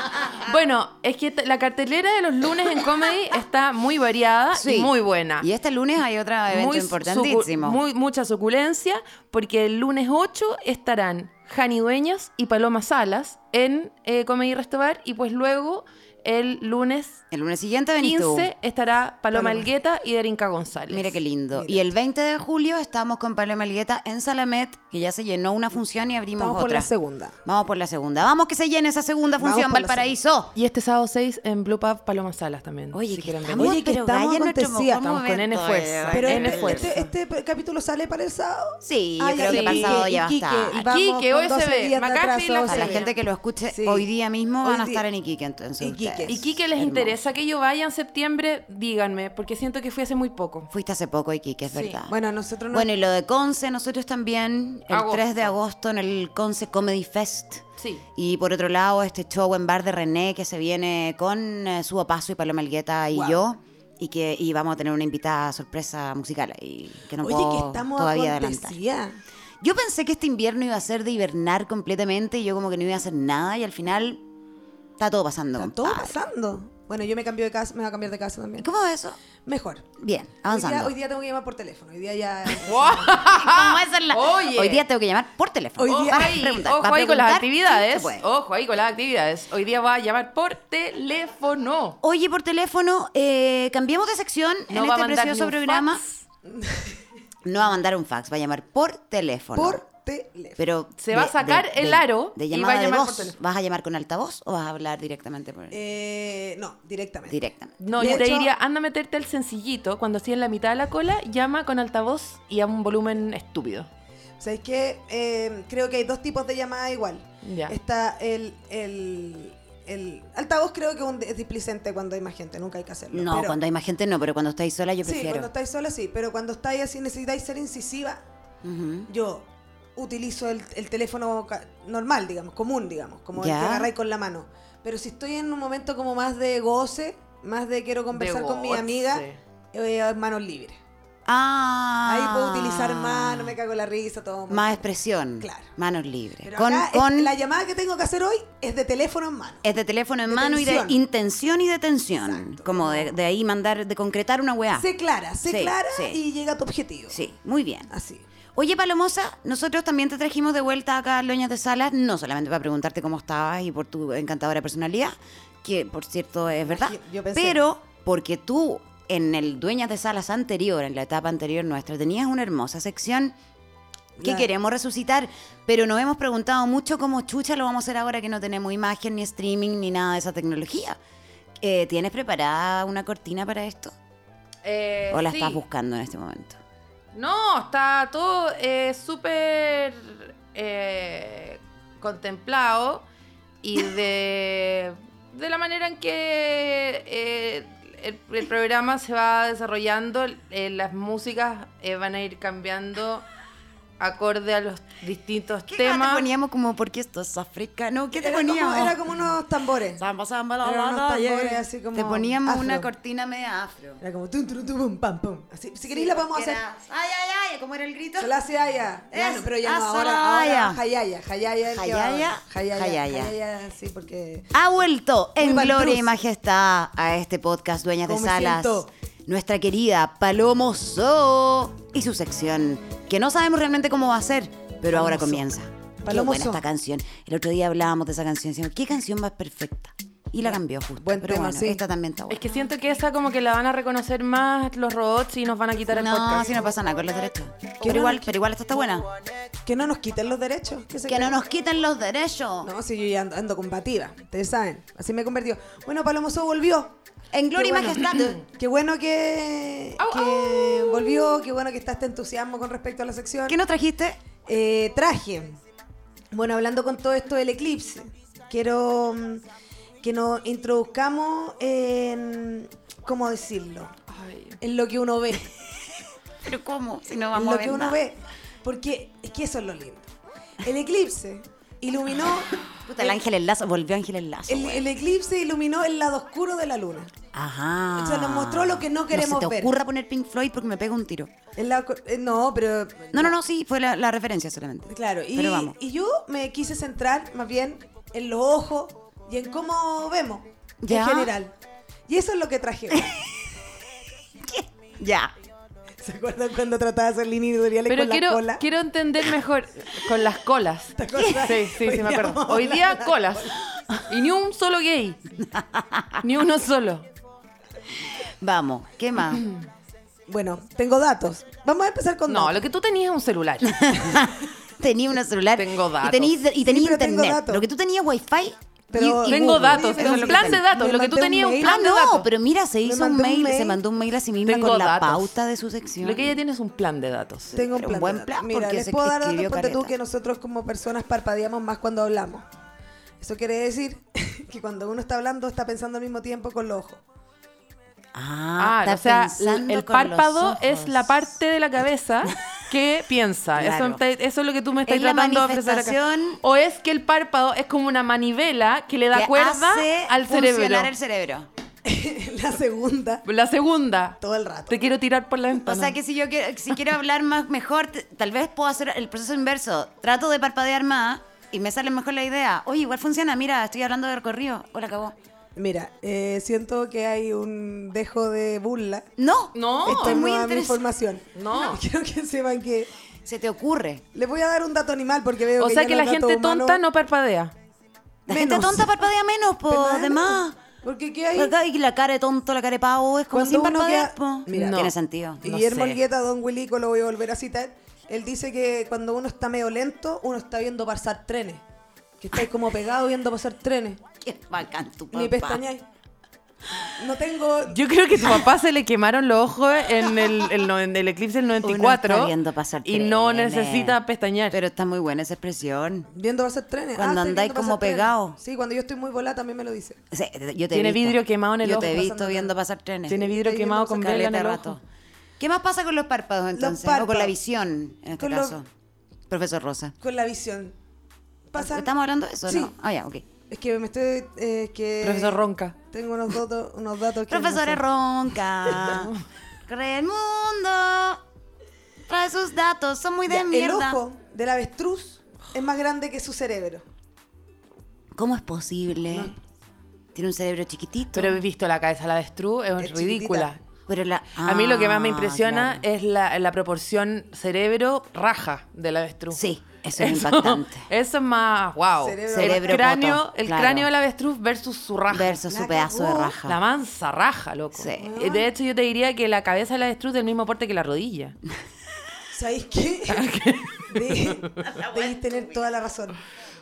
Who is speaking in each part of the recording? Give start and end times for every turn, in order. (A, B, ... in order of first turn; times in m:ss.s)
0:00.4-0:05.5 A
0:04.5-0:07.8 B
0:06.5-0:17.2 A
0:17.3-0:18.5 B
0:18.0-0:21.2 A
0:19.3-0:19.7 C
0:20.9-0:26.9 B
0:21.5-0:21.9 C
0:26.4-0:27.4 C
0:27.4-0:30.5 B
0:29.4-0:30.1 C
0:30.5-0:33.7 A
0:32.9-0:36.9 B
0:33.6-0:35.0 C
0:35.0-0:37.1 A
0:36.1-0:43.1 C
0:38.8-0:40.8 B
0:39.4-0:40.1 A
0:40.7-0:43.1 A
0:42.6-0:47.2 B
0:43.7-0:44.1 C
0:44.6-0:45.0 C
0:45.8-0:46.4 C
0:46.3-0:50.7 A
0:50.7-0:52.1 B
0:51.7-0:52.0 A
0:52.1-0:52.9 C
0:52.7-0:57.6 B
0:54.9-0:55.5 A
0:57.8-0:58.0 A
0:58.2-1:08.8 B
1:03.1-1:03.4 C
1:07.2-1:09.2 C
1:09.6-1:14.2 B
1:15.0-1:16.2 B
1:15.6-1:18.7 C
1:18.6-1:19.2 B
1:19.4-1:19.9 C
1:20.0-1:20.9 B
1:20.4-1:23.2 C
1:22.6-1:24.8 A
1:23.2-1:28.2 B
1:25.8-1:26.4 C
1:25.8-1:32.0 A
1:32.0-1:36.0 B
1:34.7-1:36.2 A
1:36.4-1:37.0 C
1:37.4-1:39.8 B
1:39.5-1:40.6 C
1:40.6-1:45.8 B
1:41.0-1:43.4 A
1:45.7-1:47.4 C
1:47.3-1:48.2 B
1:47.8-1:53.9 A
1:48.0-1:48.5 C
1:54.4-2:03.6 C
1:57.4-1:57.7 A
2:03.1-2:05.5 B
2:05.0-2:08.2 C
2:08.6-2:09.1 B
2:09.1-2:20.8 C
2:13.3-2:13.9 B
2:18.1-2:19.4 A
2:21.2-2:23.6 B
2:22.0-2:24.9 C
2:24.5-2:27.3 B
2:25.4-2:25.7 C
2:26.4-2:29.6 C
2:29.6-2:34.9 B
2:30.3-2:31.0 C
2:32.2-2:33.1 C
2:34.8-2:37.2 C
2:35.5-2:36.2 B
2:37.1-2:37.9 B
2:37.9-2:38.2 C
2:38.5-2:53.4 B
2:46.6-2:47.6 C
2:54.2-3:01.0 B
2:54.2-2:54.5 C
3:01.6-3:03.9 B
3:04.6-3:05.6 A
3:05.1-3:06.6 B
3:07.1-3:13.0 A
3:13.6-3:23.2 A
3:24.0-3:26.3 A
3:25.7-3:29.0 B
3:28.2-3:30.0 C
3:30.0-3:34.0 B
3:30.6-3:32.9 C
3:34.0-3:36.6 C
3:35.9-3:38.3 B
3:38.2-3:44.5 C
3:39.1-3:40.8 B
3:41.7-3:43.3 B
3:44.5-4:02.5 B
3:45.4-3:46.1 C
3:48.0-3:48.9 C
3:54.9-3:55.4 C
3:56.0-3:56.6 C
4:01.0-4:01.8 C
4:02.3-4:06.5 A
4:05.9-4:09.0 B
4:07.8-4:08.3 C
4:09.6-4:11.4 C
4:11.0-4:12.7 B
4:12.6-4:17.0 C
4:17.3-4:18.4 B
4:17.5-4:23.6 C
4:20.0-4:21.1 A
4:23.5-4:24.2 B
4:24.4-4:25.6 C
4:26.3-4:29.4 C
4:30.0-4:33.9 C
4:34.1-4:34.6 A
4:34.6-4:35.6 C
4:36.4-4:38.0 B
4:37.3-4:40.1 C
4:40.6-4:43.2 C
4:42.8-4:44.9 B
4:44.5-4:47.1 C
4:47.3-4:51.3 B
4:48.0-4:49.7 C
4:51.6-4:53.4 C
4:53.1-4:55.7 B
4:54.9-5:01.5 C
5:00.8-5:01.3 B
5:02.1-5:03.2 C
5:02.9-5:03.4 B
5:04.4-5:05.3 B
5:06.0-5:08.6 C
5:07.9-5:15.2 A
5:11.0-5:13.6 C
5:11.1-5:11.5 B
5:15.5-5:16.2 B
5:16.2-5:17.0 A
5:18.1-5:19.4 B
5:20.3-5:22.6 C
5:22.3-5:23.8 A
5:23.6-5:30.6 B
5:25.6-5:26.4 A
5:26.6-5:27.7 C
5:28.9-5:31.8 C
5:29.2-5:32.3 A
5:31.6-5:36.4 B
5:32.8-5:33.8 C
5:34.4-5:35.3 A
5:36.0-5:37.6 A
5:37.5-5:39.9 B
5:37.5-5:42.4 C
5:43.2-5:47.0 C
5:48.1-5:51.3 B
5:48.6-6:00.9 A
5:53.5-5:54.0 B
5:54.8-5:56.4 B
5:59.1-6:01.5 B
6:01.8-6:03.2 C
6:03.2-6:04.2 A
6:04.2-6:04.8 C
6:04.7-6:06.0 A
6:05.6-6:15.1 B
6:15.6-6:19.1 C
6:19.2-6:20.8 B
6:19.5-6:20.2 A
6:19.8-6:22.9 C
6:21.3-6:21.8 A
6:23.2-6:24.0 B
6:24.1-6:26.8 C
6:25.6-6:27.5 A
6:28.3-6:29.0 C
6:28.3-6:30.6 B
6:29.7-6:31.5 C
6:31.3-6:36.0 B
6:33.3-6:41.6 C
6:34.5-6:34.9 A
6:42.2-6:44.0 C
6:44.2-6:45.6 B
6:45.1-6:45.8 C
6:46.9-6:47.8 C
6:47.7-6:54.6 A
6:51.6-6:54.0 B
6:54.5-6:56.1 B
6:56.1-7:00.0 C
6:57.0-6:58.4 B
7:00.1-7:04.8 B
7:00.7-7:02.1 A
7:01.7-7:02.5 C
7:03.1-7:04.8 A
7:03.1-7:04.1 C
7:05.4-7:08.7 B
7:06.5-7:07.3 C
7:08.1-7:08.6 C
7:09.3-7:09.9 B
7:10.0-7:10.7 C
7:11.5-7:11.9 C
7:11.6-7:13.2 B
7:12.4-7:12.7 C
7:13.5-7:17.8 C
7:15.0-7:15.7 A
7:17.3-7:19.1 B
7:19.7-7:21.2 B
7:22.1-7:24.0 B
7:23.3-7:26.8 C
7:28.1-7:29.3 B
7:30.1-7:31.4 B
7:31.1-7:33.6 A
7:32.8-7:33.5 C
7:33.9-7:35.8 B
7:34.4-7:39.4 A
7:39.3-7:40.9 B
7:40.0-7:45.4 A
7:42.0-7:42.9 C
7:42.3-7:43.9 B
7:45.1-7:46.6 B
7:45.5-7:46.4 C
7:46.4-7:51.4 A
7:47.7-7:48.0 B
7:48.0-7:48.5 C
7:52.3-7:56.2 C
7:53.1-7:54.3 A
7:54.6-7:55.6 B